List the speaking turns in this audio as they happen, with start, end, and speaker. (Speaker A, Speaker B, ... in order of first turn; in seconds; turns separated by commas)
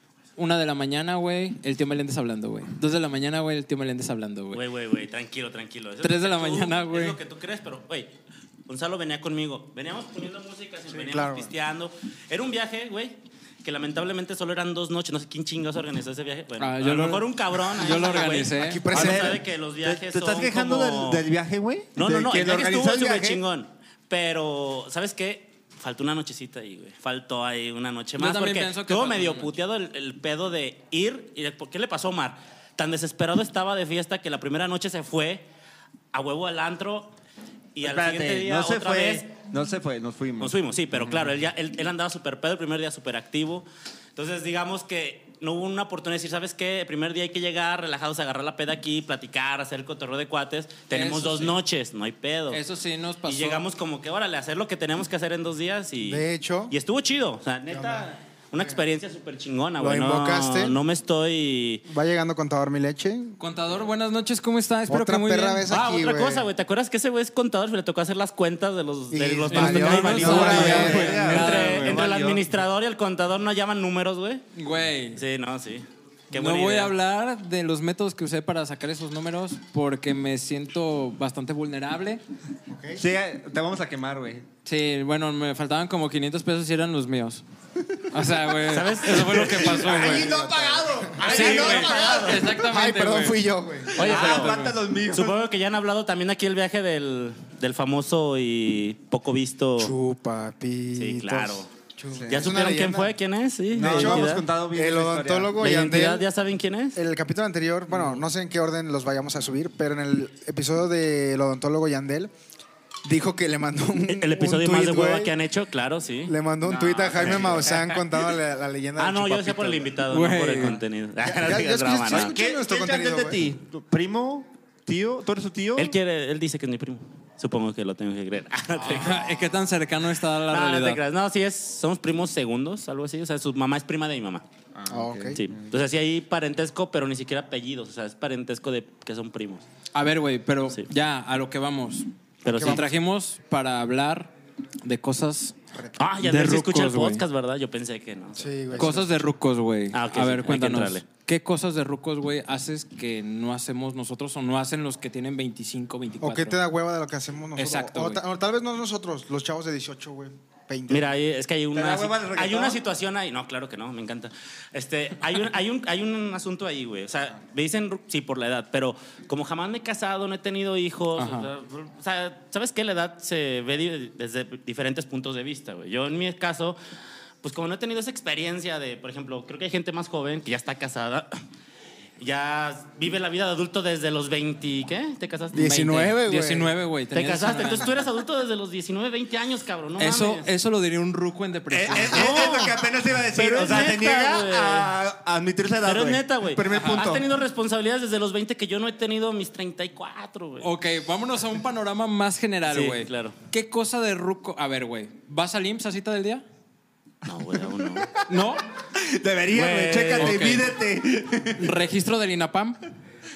Speaker A: 0.3-4.6, Speaker B: 4.5-8.1, Speaker A: 6.0-7.2, Speaker B: 8.7-21.2, Speaker C: 10.9-11.5, Speaker A: 16.6-19.0, Speaker C: 18.5-19.4, Speaker D: 18.9-23.4, Speaker B: 21.9-35.4, Speaker A: 28.2-29.5, Speaker B: 36.1-37.1, Speaker B: 37.8-39.3, Speaker D: 37.8-41.2, Speaker B: 40.4-52.6, Speaker A: 50.9-51.5, Speaker A: 52.5-53.6, Speaker B: 53.2-61.8, Speaker C: 56.0-56.7, Speaker C: 57.7-58.8, Speaker C: 59.8-60.8, Speaker C: 61.9-63.4, Speaker A: 63.4-65.6, Speaker C: 64.9-66.5, Speaker B: 65.7-74.4, Speaker C: 69.1-71.2, Speaker A: 69.5-72.0, Speaker D: 70.0-72.5, Speaker A: 74.5-75.2, Speaker B: 75.2-76.9, Speaker A: 76.3-82.2, Speaker C: 82.7-83.0, Speaker D: 83.0-84.5, Speaker A: 84.6-87.4, Speaker A: 88.1-90.3, Speaker B: 88.7-90.3, Speaker D: 89.5-92.2, Speaker C: 89.9-94.2, Speaker B: 91.2-92.5, Speaker A: 91.2-93.4, Speaker B: 93.9-99.9, Speaker D: 93.9-95.4, Speaker A: 94.0-94.7, Speaker C: 99.8-103.1, Speaker B: 101.0-101.7, Speaker D: 102.1-102.5, Speaker B: 102.3-104.5, Speaker D: 103.7-105.5, Speaker C: 103.8-106.2, Speaker B: 105.6-107.0, Speaker C: 106.9-112.3, Speaker C: 113.0-115.3, Speaker B: 114.0-118.1, Speaker C: 116.2-119.9, Speaker D: 117.2-117.6, Speaker B: 119.0-122.3, Speaker A: 120.1-120.8, Speaker C: 121.2-123.4, Speaker D: 122.1-126.0, Speaker B: 125.8-129.3, Speaker A: 128.8-131.0, Speaker B: 130.5-134.4, Speaker D: 134.7-135.6, Speaker C: 134.9-135.4, Speaker B: 135.3-139.6, Speaker A: 139.9-142.1, Speaker B: 142.4-142.9, Speaker C: 142.5-142.9, Speaker A: 142.6-144.3, Speaker A: 144.8-145.5, Speaker C: 145.7-146.1, Speaker B: 146.0-148.5, Speaker A: 146.2-147.2, Speaker C: 148.3-149.2, Speaker A: 148.7-156.6, Speaker B: 149.9-151.0, Speaker C: 156.2-161.1, Speaker A: 157.6-158.2, Speaker B: 160.9-176.8, Speaker D: 161.7-162.8, Speaker A: 171.2-171.5, Speaker B: 177.4-181.3, Speaker B: 182.2-186.1, Speaker C: 185.5-186.8, Speaker A: 185.6-187.9, Speaker B: 187.1-190.5, Speaker A: 190.0-192.5, Speaker D: 191.7-197.2, Speaker B: 191.9-194.9, Speaker B: 195.8-200.7, Speaker A: 196.7-197.1, Speaker A: 200.6-206.4, Speaker B: 202.7-203.3, Speaker B: 207.2-208.1, Speaker D: 207.8-211.8, Speaker A: 208.3-208.6, Speaker B: 209.5-210.7, Speaker A: 210.2-210.7, Speaker A: 211.6-212.8